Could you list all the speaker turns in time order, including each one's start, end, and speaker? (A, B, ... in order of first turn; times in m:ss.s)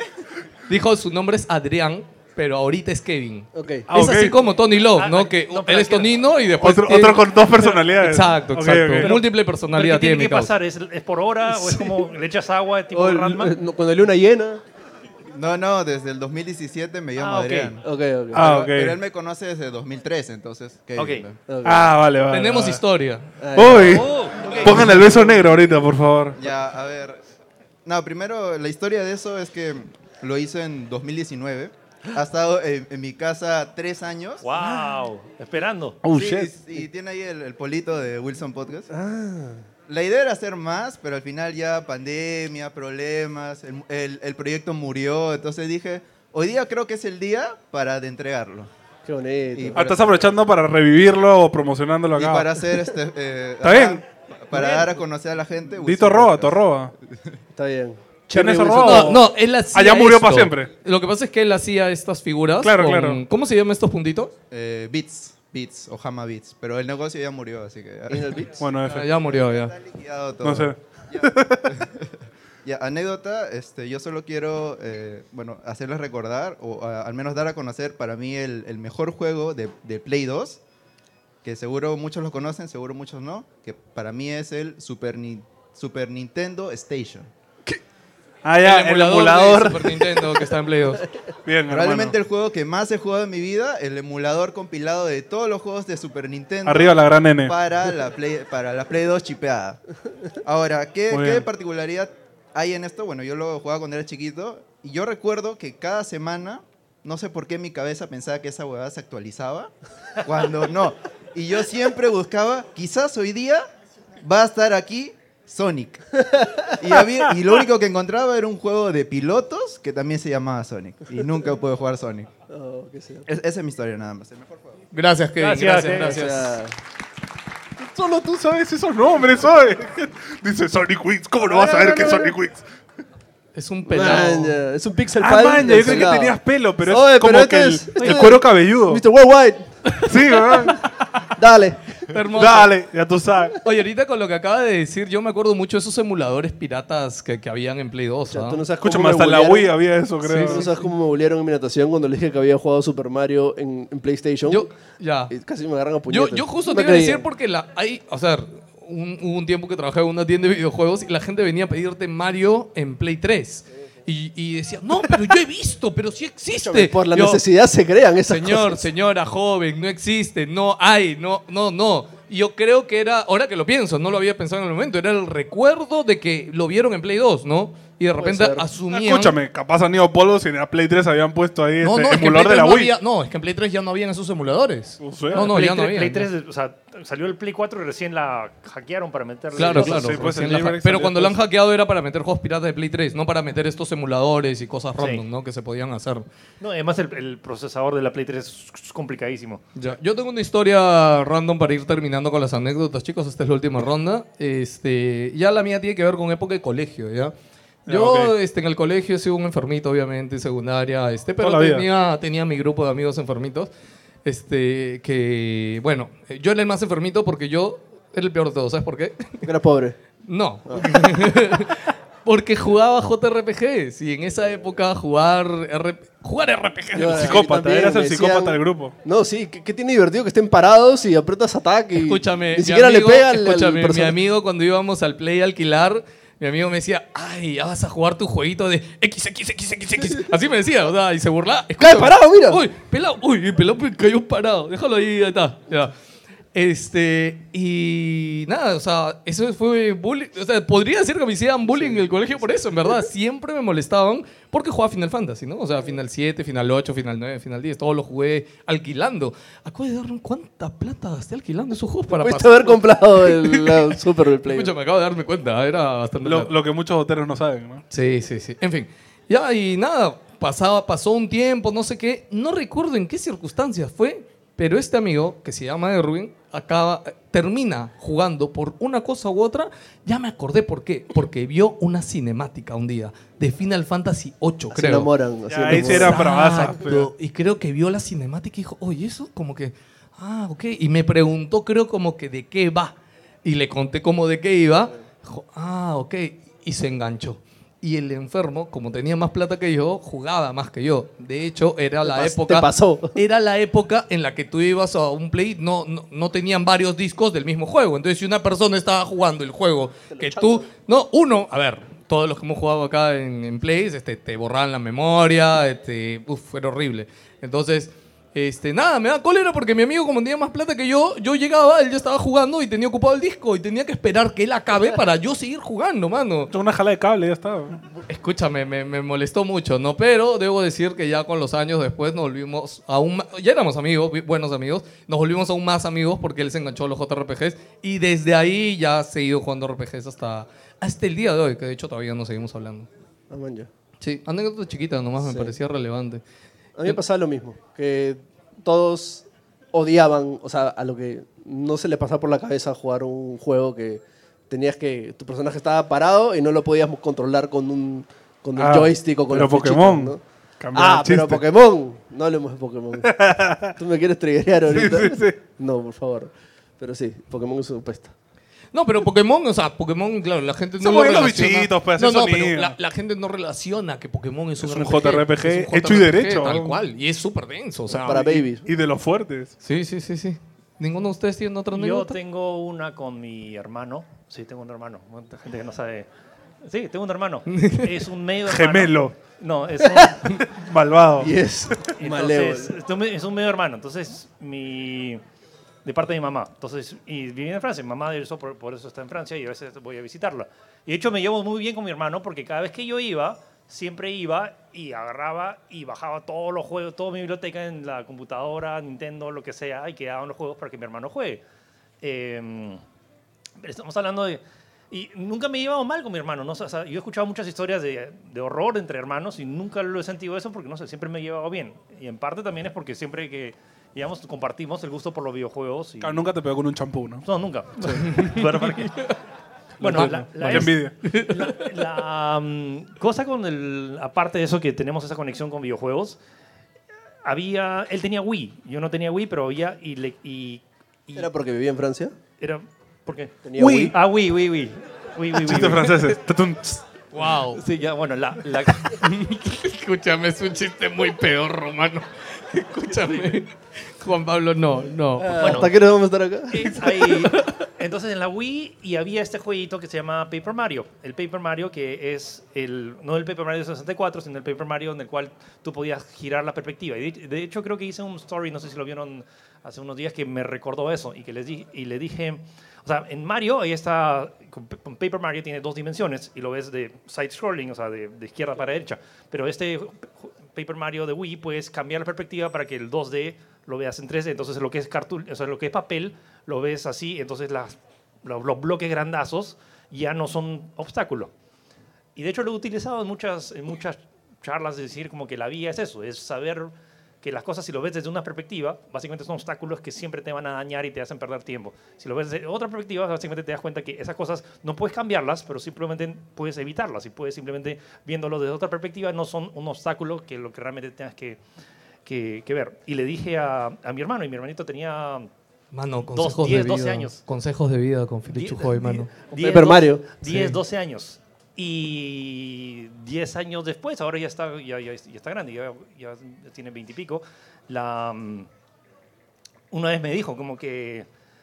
0:00.7-0:07.3 A
0:03.5-0:03.9 B
0:03.9-0:04.4 C
0:04.8-0:06.2 D
0:06.6-0:09.2 C
0:07.9-0:10.5 A
0:09.0-0:13.6 D
0:12.9-0:14.6 B
0:15.4-0:17.8 E
0:17.2-0:17.8 D
0:17.8-0:18.5 B
0:18.3-0:19.0 C
0:18.4-0:21.4 E
0:21.0-0:21.3 D
0:21.5-0:21.9 B
0:21.6-0:22.8 C
0:22.3-0:23.3 A
0:23.4-0:25.4 B
0:23.5-0:26.4 C
0:23.9-0:24.8 D
0:26.4-0:27.2 E
0:27.8-0:34.4 E
0:34.4-0:36.0 D
0:36.0-0:36.6 C
0:36.1-0:38.9 E
0:38.9-0:39.6 B
0:39.9-0:48.7 E
0:49.0-0:50.1 B
0:49.5-0:50.0 E
0:49.7-0:52.5 C
0:52.2-0:56.6 E
0:53.6-0:54.0 C
0:55.8-0:56.9 C
0:57.5-0:59.2 B
0:58.3-1:00.7 C
0:58.8-1:04.3 A
1:02.6-1:03.2 C
1:04.5-1:08.4 E
1:08.1-1:08.6 B
1:08.6-1:09.1 C
1:08.8-1:09.7 A
1:09.2-1:12.1 E
1:10.4-1:11.8 C
1:12.6-1:20.6 E
1:21.4-1:27.3 E
1:28.4-1:30.2 C
1:28.6-1:31.1 A
1:31.4-1:32.2 C
1:31.7-1:39.8 E
1:36.6-1:37.6 C
1:40.4-1:49.7 E
1:41.1-1:41.5 C
1:50.2-1:53.7 E
1:54.2-2:02.3 E
1:56.2-1:56.8 B
2:02.5-2:03.2 B
2:03.3-2:04.7 E
2:04.9-2:06.6 A
2:05.4-2:06.2 D
2:05.9-2:06.8 B
2:07.9-2:12.6 C
2:11.5-2:12.3 B
2:13.6-2:14.6 A
2:13.9-2:19.9 B
2:15.2-2:19.0 C
2:18.0-2:18.3 D
2:20.0-2:20.9 C
2:21.4-2:21.8 B
2:22.1-2:22.8 A
2:22.3-2:23.6 C
2:23.6-2:28.7 A
2:28.3-2:29.7 B
2:28.8-2:30.7 C
2:30.2-2:30.7 A
2:30.4-2:34.7 B
2:34.5-2:35.3 A
2:35.3-2:37.3 B
2:36.1-2:47.4 A
2:46.5-2:48.9 B
2:48.3-2:59.4 A
2:58.2-2:58.7 B
2:58.9-3:02.9 C
3:01.8-3:06.3 A
3:05.0-3:05.5 C
3:05.3-3:10.2 D
3:09.6-3:16.2 A
3:09.6-3:11.4 C
3:15.0-3:15.2 D
3:16.6-3:19.6 D
3:19.8-3:27.3 A
3:27.9-3:28.3 C
3:27.9-3:33.7 A
3:31.4-3:31.9 C
3:34.2-3:39.5 A
3:39.4-3:40.0 B
3:40.2-3:47.4 A
3:40.7-3:41.2 B
3:47.0-3:54.2 B
3:47.2-3:48.9 C
3:52.0-4:05.9 A
4:01.8-4:02.6 B
4:06.5-4:26.5 A
4:11.7-4:12.1 B
4:22.2-4:24.7 B
4:26.2-4:27.8 C
4:27.9-4:45.1 A
4:44.7-4:46.3 B
4:45.5-4:47.1 C
4:45.6-5:26.5 A
5:02.0-5:03.2 B
5:10.1-5:10.7 B
5:26.5-5:27.8 C
5:28.1-5:42.9 A
5:43.3-5:43.7 B
5:44.0-5:46.2 A
5:45.2-5:45.6 B
5:46.8-6:00.2 B
5:58.6-6:01.4 C
6:00.7-6:03.1 B
6:03.0-6:03.8 C
6:03.8-6:08.1 B
6:04.7-6:05.4 C
6:08.7-6:18.2 A
6:10.8-6:12.8 C
6:14.6-6:16.8 C
6:17.9-6:19.6 C
6:18.0-6:18.6 B
6:19.6-6:22.2 A
6:21.7-6:26.1 D
6:26.6-6:30.5 D
6:27.5-6:27.9 A
6:28.5-6:29.2 C
6:30.4-6:31.9 C
6:31.2-6:32.8 B
6:32.0-6:35.2 D
6:35.8-6:51.4 D
6:52.0-6:52.8 D
6:53.6-7:06.2 D
7:06.0-7:07.2 C
7:07.2-7:09.0 D
7:07.8-7:08.3 C
7:08.0-7:09.1 A
7:09.8-7:11.0 C
7:09.8-7:16.2 D
7:09.9-7:11.6 A
7:17.2-7:21.3 D
7:21.2-7:22.2 B
7:22.4-7:26.0 D
7:23.4-7:24.0 B
7:25.4-7:26.8 C
7:27.1-7:27.6 A
7:27.3-7:29.0 D
7:28.8-7:35.7 A
7:35.2-7:36.7 B
7:35.4-7:35.7 D
7:36.6-7:37.6 A
7:36.6-8:11.3 D
8:12.2-8:31.4 D
8:32.1-8:35.3 D
8:35.7-8:39.1 A
8:36.1-8:37.2 D
8:38.3-8:48.5 D
8:39.4-8:40.1 B
8:40.2-8:40.6 A
8:49.7-8:51.1 D